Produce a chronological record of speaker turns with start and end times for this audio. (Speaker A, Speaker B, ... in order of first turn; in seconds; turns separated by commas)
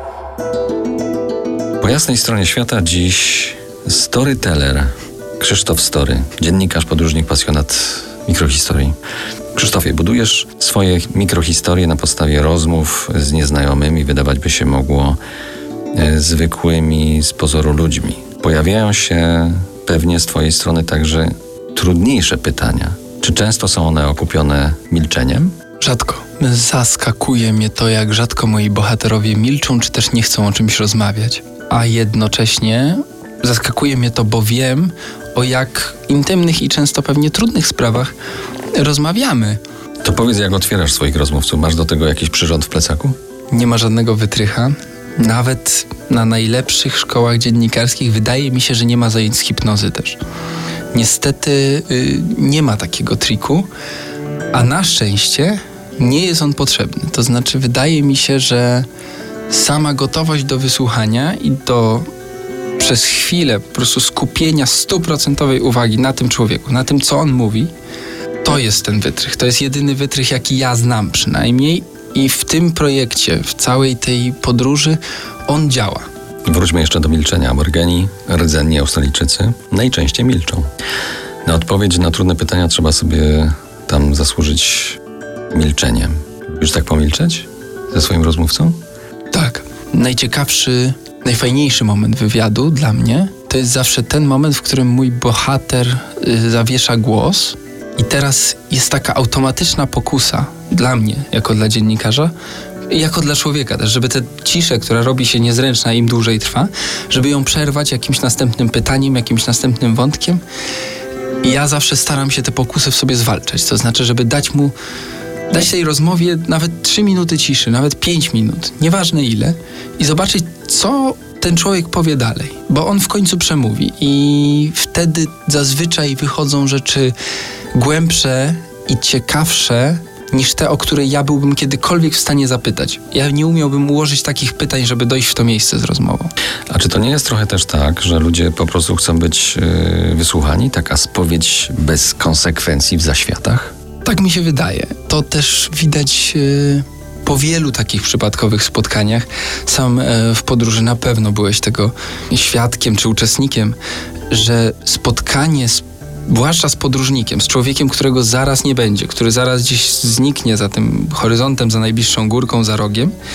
Speaker A: 1.8-8.9, Speaker A: 9.5-15.2, Speaker A: 15.9-25.5, Speaker B: 25.8-38.1, Speaker B: 38.8-39.6, Speaker A: 40.0-43.2, Speaker B: 43.5-50.2, Speaker B: 50.9-53.7, Speaker B: 54.5-58.9, Speaker B: 59.5-62.1, Speaker B: 62.8-67.7, Speaker B: 68.4-76.1, Speaker A: 76.4-80.7, Speaker A: 81.4-85.0, Speaker A: 85.5-88.8, Speaker B: 89.3-102.3, Speaker B: 102.9-110.4, Speaker B: 111.4-114.7, Speaker B: 115.5-127.1, Speaker B: 127.7-136.3, Speaker A: 136.7-143.7, Speaker B: 144.0-153.8, Speaker B: 154.3-163.1